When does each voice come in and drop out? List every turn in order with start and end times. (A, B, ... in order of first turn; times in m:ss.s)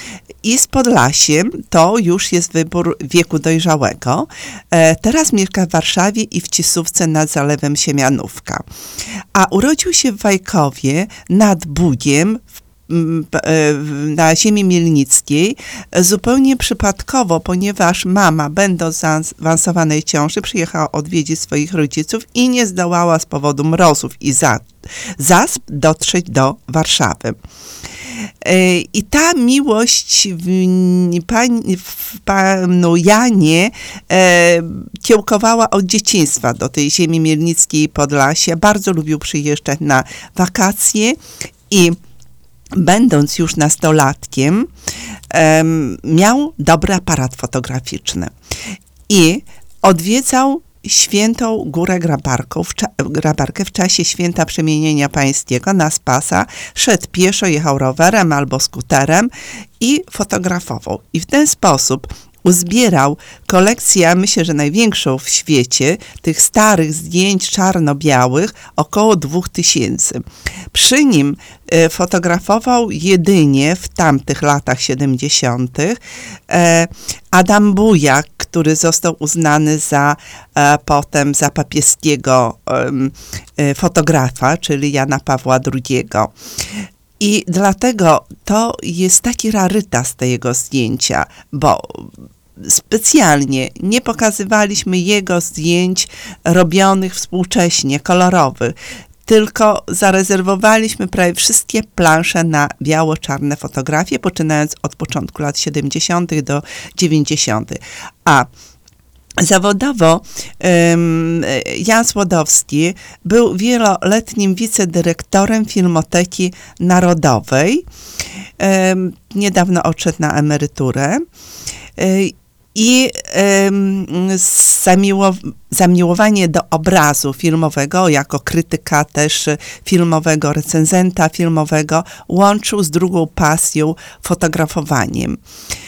0:00.4-0:08.6 A
0:09.4-0:27.4 A
0:28.4-0:41.2 A
0:41.7-0:42.0 A
0:42.7-0:44.7 A
0:45.3-0:48.3 A
0:49.1-1:26.3 A
1:27.2-1:48.5 A
1:49.4-1:57.8 A
1:58.6-2:01.2 A
2:02.0-2:15.4 A